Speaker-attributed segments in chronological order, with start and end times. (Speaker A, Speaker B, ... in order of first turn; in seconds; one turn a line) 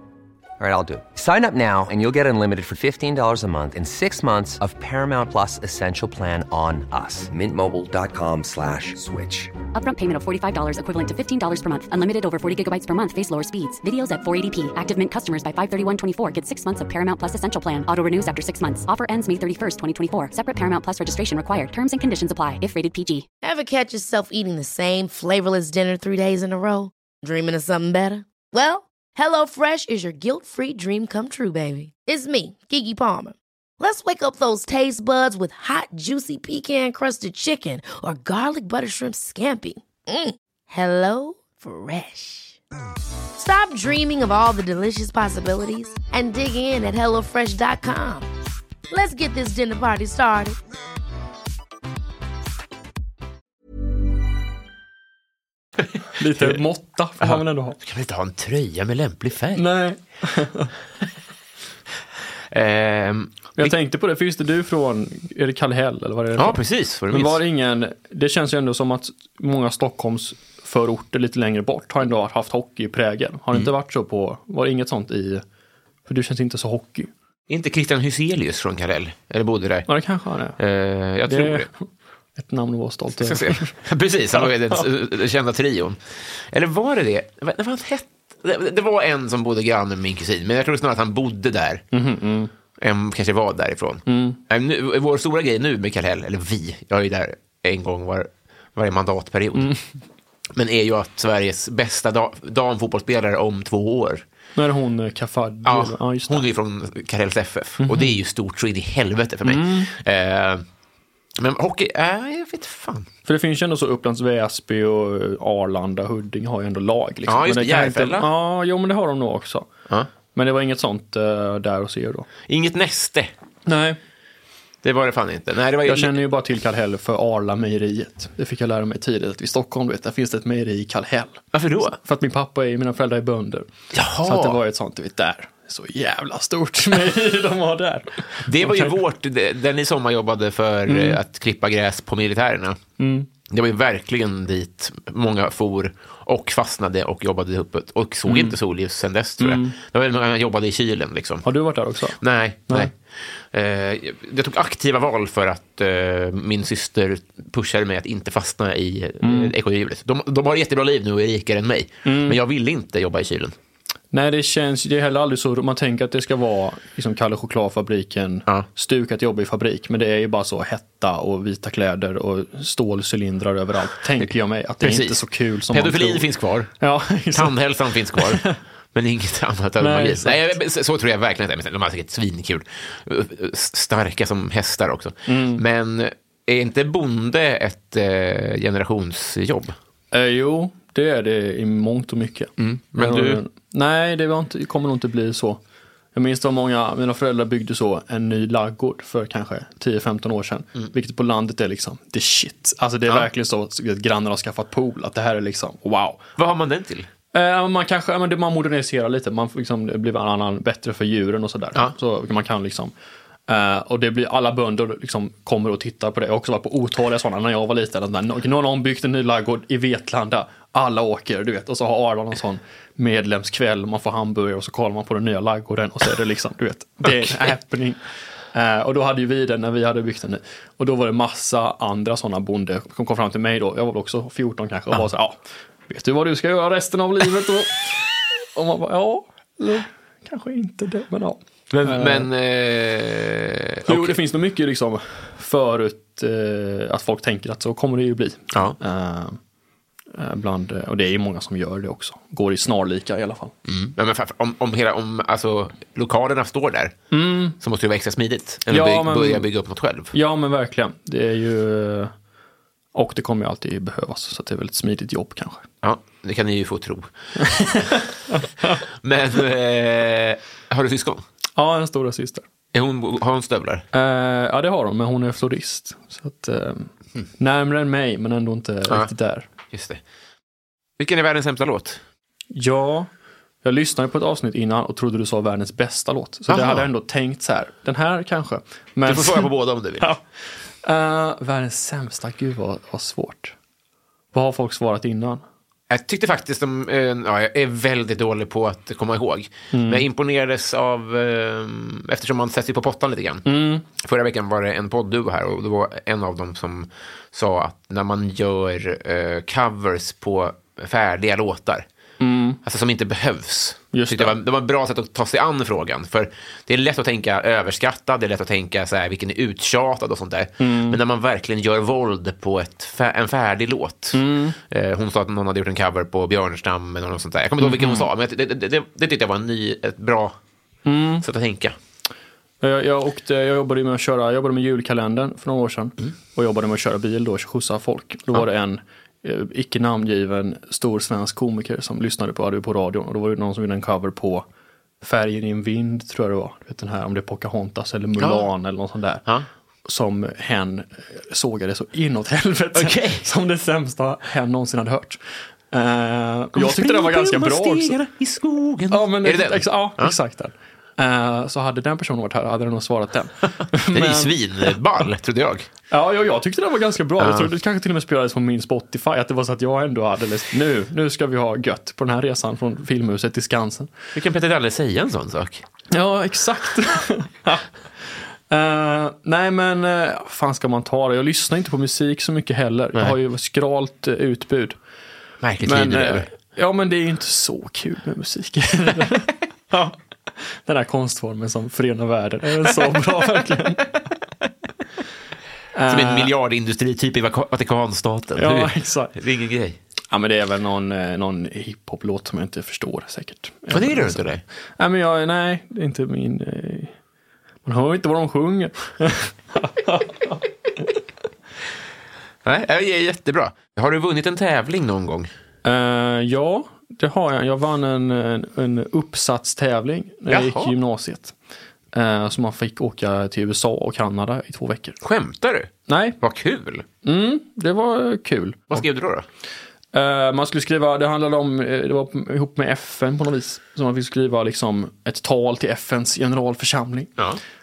Speaker A: 0.6-9.6
Speaker B: 9.7-23.2
Speaker C: 23.4-42.6
Speaker C: 43.4-48.3
Speaker C: 48.9-50.6
Speaker D: 56.2-57.8
Speaker E: 57.2-59.7
Speaker D: 59.6-60.7
Speaker E: 62.5-63.7
Speaker D: 63.6-75.4
Speaker E: 66.4-67.4
Speaker D: 76.1-77.1
Speaker E: 77.5-79.9
Speaker D: 79.9-80.6
Speaker E: 80.6-81.7
Speaker D: 81.3-83.8
Speaker E: 83.2-91.8
Speaker D: 84.4-84.8
Speaker D: 91.9-92.5
Speaker E: 92.8-99.7
Speaker D: 94.1-94.4
Speaker D: 99.5-99.8
Speaker E: 100.5-104.2
Speaker D: 104.6-106.4
Speaker E: 105.6-110.6
Speaker D: 107.8-108.2
Speaker D: 109.4-109.9
Speaker E: 111.4-113.1
Speaker D: 113.2-119.7
Speaker E: 117.3-118.3
Speaker D: 120.3-122.3
Speaker E: 122.5-123.3
Speaker D: 123.7-124.0
Speaker E: 124.8-126.2
Speaker D: 125.8-133.7
Speaker E: 131.5-132.0
Speaker E: 133.9-134.6
Speaker D: 134.2-138.9
Speaker E: 138.4-142.8
Speaker D: 140.9-141.2
Speaker D: 143.0-143.3
Speaker E: 143.5-151.4
Speaker D: 148.3-148.6
Speaker D: 149.4-149.8
Speaker D: 151.4-152.9
Speaker E: 152.2-163.5
Speaker D: 159.2-159.5
Speaker D: 162.1-162.4
Speaker D: 164.1-176.3
Speaker E: 174.8-176.7
Speaker D: 176.8-177.6
Speaker E: 177.3-189.7
Speaker D: 178.1-178.6
Speaker D: 179.8-180.5
Speaker D: 185.3-185.6
Speaker D: 190.1-195.6
Speaker E: 192.6-193.4
Speaker D: 196.1-206.2
Speaker E: 206.4-207.1
Speaker D: 207.3-212.9
Speaker D: 213.5-228.0
Speaker D: 228.5-242.3
Speaker E: 241.7-244.2
Speaker D: 243.9-249.4
Speaker E: 248.5-248.8
Speaker D: 250.1-253.6
Speaker E: 253.7-257.0
Speaker D: 257.1-257.6
Speaker E: 257.6-260.1
Speaker D: 258.7-259.5
Speaker D: 260.1-262.1
Speaker D: 262.9-265.6
Speaker E: 265.8-267.1
Speaker D: 267.4-268.8
Speaker E: 269.0-271.2
Speaker D: 271.6-272.4
Speaker E: 272.7-273.8
Speaker D: 273.9-279.5
Speaker E: 279.7-280.0
Speaker E: 281.0-282.0
Speaker D: 282.5-283.1
Speaker D: 283.6-290.2
Speaker E: 286.5-286.9
Speaker E: 289.1-290.1
Speaker D: 290.8-293.6
Speaker D: 294.3-295.4
Speaker E: 295.9-311.9
Speaker D: 299.7-300.1
Speaker D: 303.4-303.8
Speaker D: 312.2-312.6
Speaker E: 312.6-330.4
Speaker D: 313.9-314.4
Speaker D: 320.6-321.0
Speaker D: 324.1-324.6
Speaker D: 327.6-328.1
Speaker D: 330.8-331.2
Speaker E: 331.2-331.8
Speaker D: 332.6-344.4
Speaker D: 345.0-349.2
Speaker E: 348.2-348.5
Speaker D: 349.9-355.2
Speaker E: 352.7-353.3
Speaker D: 355.7-357.9
Speaker E: 356.5-360.1
Speaker D: 358.9-364.7
Speaker E: 363.9-365.7
Speaker D: 365.9-373.9
Speaker E: 367.2-367.5
Speaker E: 374.1-375.6
Speaker D: 375.9-384.8
Speaker E: 385.4-386.3
Speaker D: 385.6-393.9
Speaker D: 395.7-396.3
Speaker E: 395.9-399.8
Speaker D: 398.4-399.1
Speaker D: 400.1-406.9
Speaker E: 403.7-404.4
Speaker D: 407.6-410.4
Speaker E: 412.4-415.3
Speaker D: 415.6-421.3
Speaker E: 420.3-420.7
Speaker D: 421.9-425.0
Speaker E: 425.0-426.9
Speaker D: 425.9-426.2
Speaker D: 427.0-428.8
Speaker E: 428.7-429.3
Speaker D: 429.9-437.1